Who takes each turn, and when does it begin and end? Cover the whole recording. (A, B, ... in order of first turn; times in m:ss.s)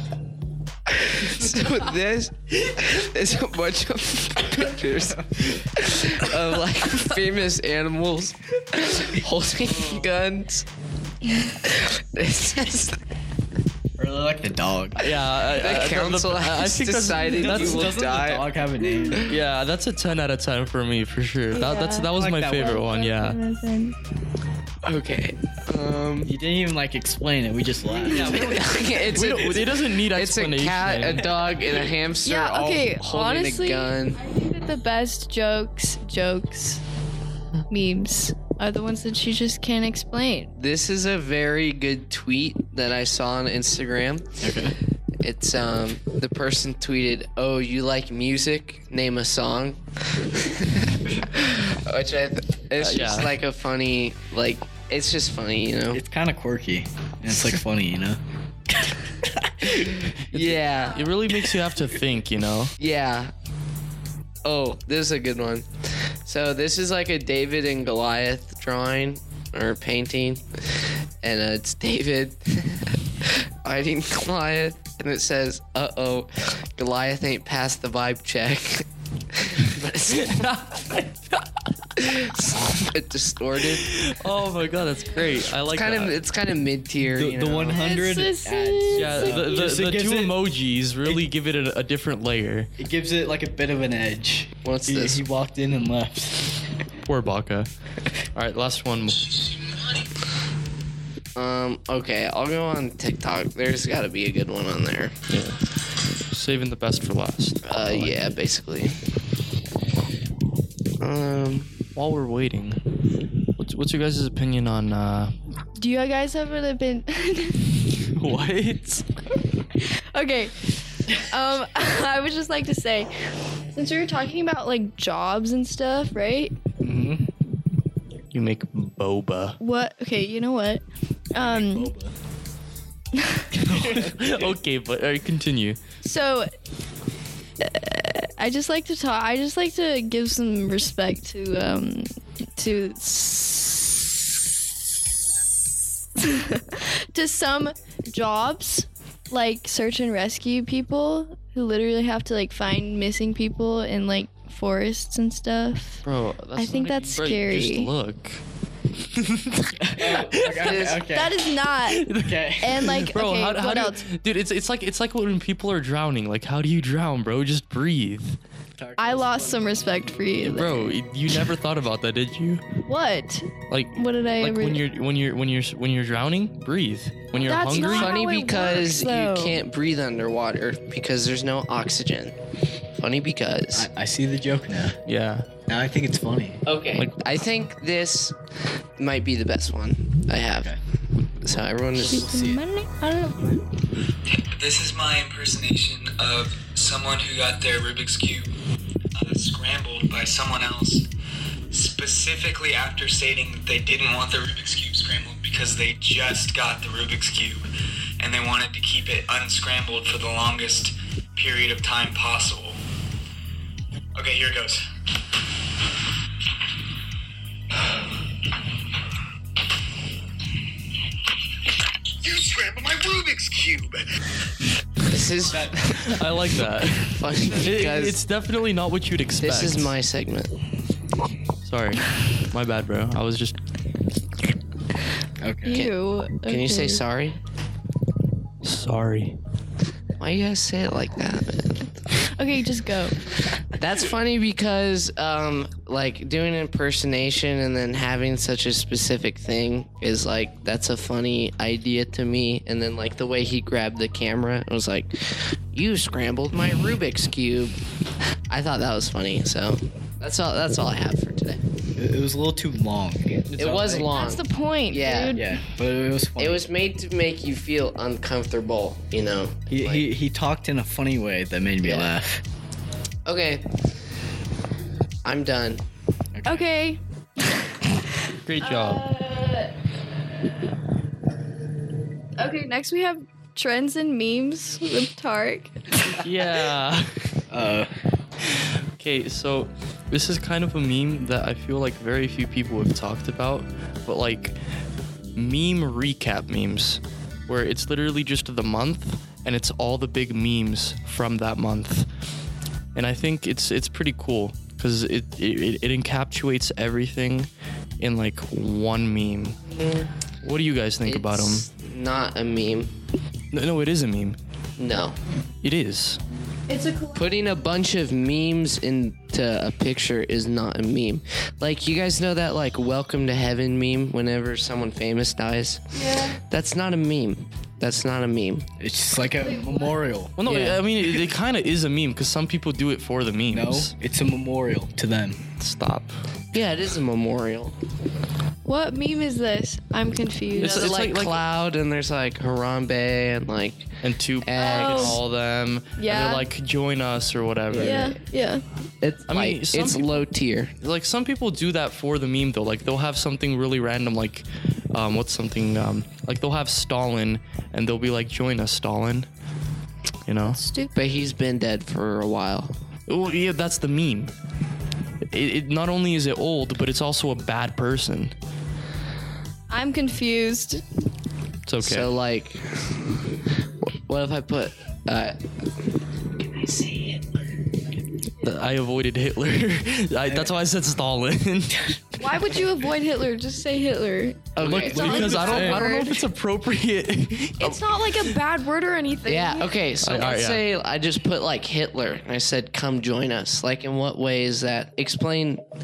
0:00.9-0:10.6 A
0:09.7-0:10.0 B
0:11.6-0:13.0 A
0:14.0-0:15.0 B
0:15.0-0:17.9 C
0:15.2-0:19.4 A
0:17.3-0:19.3 B
0:19.2-0:23.4 C
0:21.5-0:24.0 D
0:22.1-0:22.8 B
0:24.8-0:26.4 A
0:26.2-0:29.1 B
0:28.0-0:34.2 A
0:28.1-0:28.5 D
0:29.1-0:31.4 C
0:32.2-0:36.8 D
0:37.7-0:40.5 D
0:40.6-0:44.4 A
0:44.4-0:44.7 B
0:45.2-0:56.0 A
0:52.8-0:53.3 C
0:55.9-1:00.1 B
1:00.3-1:02.7 C
1:00.3-1:01.0 A
1:02.8-1:03.3 A
1:04.4-1:05.7 A
1:06.2-1:10.4 A
1:11.2-1:20.5 A
1:20.1-1:21.4 C
1:22.0-1:24.0 A
1:23.7-1:26.2 C
1:25.7-1:27.9 A
1:27.1-1:30.4 B
1:27.8-1:29.4 D
1:29.0-1:32.7 C
1:32.8-1:36.5 B
1:34.6-1:35.2 A
1:37.0-1:37.7 C
1:38.4-1:39.4 C
1:41.4-1:45.1 A
1:45.3-1:45.6 C
1:46.3-1:48.2 C
1:47.6-1:49.0 A
1:51.0-1:51.7 A
1:52.0-1:52.8 C
1:53.6-1:55.3 C
1:55.8-1:57.7 D
1:58.1-1:59.0 C
1:59.8-2:03.1 D
2:03.7-2:06.5 D
2:06.8-2:07.3 B
2:08.3-2:09.6 C
2:09.6-2:11.9 D
2:11.4-2:12.1 B
2:13.1-2:13.5 D
2:13.5-2:15.8 C
2:13.6-2:14.5 B
2:16.0-2:16.5 D
2:17.6-2:24.3 D
2:26.2-2:36.0 D
2:36.0-2:38.4 C
2:36.6-2:37.9 D
2:39.1-2:40.8 C
2:39.8-2:41.4 B
2:40.6-2:41.1 A
2:41.1-2:42.0 D
2:41.9-2:48.4 C
2:42.2-2:42.8 B
2:42.6-2:44.0 D
2:48.8-2:49.7 B
2:49.0-2:51.0 D
2:50.4-2:52.6 C
2:52.8-2:54.8 D
2:53.7-2:58.2 C
2:57.4-2:59.6 D
2:57.7-3:02.3 A
3:03.0-3:03.9 A
3:03.7-3:05.0 B
3:05.0-3:05.5 C
3:05.7-3:06.6 B
3:06.6-3:08.4 A
3:09.0-3:10.7 A
3:11.4-3:12.2 A
3:12.0-3:13.6 D
3:12.1-3:12.6 B
3:14.2-3:18.5 E
3:19.2-3:21.1 E
3:21.7-3:27.6 E
3:28.2-3:32.8 E
3:34.1-3:34.8 E
3:42.2-3:44.0 E
3:45.0-3:48.2 A
3:45.9-3:49.9 C
3:49.4-3:50.5 A
3:51.6-3:53.6 C
3:55.4-3:55.9 B
3:55.6-3:57.0 D
3:56.4-3:57.4 A
3:58.6-3:59.4 C
4:00.2-4:01.9 A
4:02.3-4:03.2 D
4:03.8-4:17.8 A
4:18.5-4:21.6 A
4:22.0-4:24.1 B
4:23.6-4:25.4 A
4:24.1-4:25.4 D
4:25.3-4:26.6 B
4:26.4-4:30.1 A
4:29.7-4:32.4 B
4:31.8-4:32.1 A
4:33.2-4:33.7 A
4:35.2-4:35.8 A
4:36.3-4:36.6 B
4:36.4-4:37.8 D
4:38.4-4:39.0 C
4:38.6-4:39.7 D
4:42.4-4:46.2 D
4:46.2-4:47.2 C
4:47.5-4:47.9 B
4:48.5-4:54.6 C
4:55.4-5:02.1 C
5:02.9-5:07.5 C
5:08.0-5:09.6 C
5:09.7-5:10.1 A
5:10.4-5:11.6 C
5:11.0-5:12.9 A
5:13.5-5:14.4 C
5:14.8-5:15.2 A
5:15.6-5:16.2 C
5:16.7-5:17.4 D
5:17.2-5:25.8 A
5:25.9-5:26.4 D
5:26.5-5:28.7 A
5:28.8-5:30.9 B
5:29.4-5:29.9 D
5:30.4-5:33.9 C
5:33.5-5:35.4 B
5:35.6-5:36.2 C
5:36.5-5:37.7 A
5:38.6-5:40.9 D
5:40.6-5:41.4 C
5:40.6-5:43.9 A
5:44.0-5:48.2 C
5:44.4-5:45.2 A
5:44.6-5:45.2 D
5:46.0-5:46.4 D
5:47.7-5:48.1 A
5:47.8-5:48.6 D
5:49.0-5:50.7 A
5:49.3-5:50.2 C
5:50.8-5:59.3 C
6:00.3-6:00.6 C
6:00.4-6:01.0 D
6:00.9-6:02.7 A
6:03.1-6:04.3 C
6:05.3-6:08.3 C
6:09.7-6:10.8 D
6:11.7-6:12.1 C
6:11.8-6:12.9 A
6:13.8-6:15.4 A
6:16.5-6:17.2 A
6:18.4-6:22.0 C
6:22.2-6:26.2 D
6:24.6-6:25.7 A
6:24.6-6:28.3 C
6:25.2-6:25.9 B
6:27.6-6:29.8 D
6:29.3-6:35.6 A
6:30.0-6:30.6 C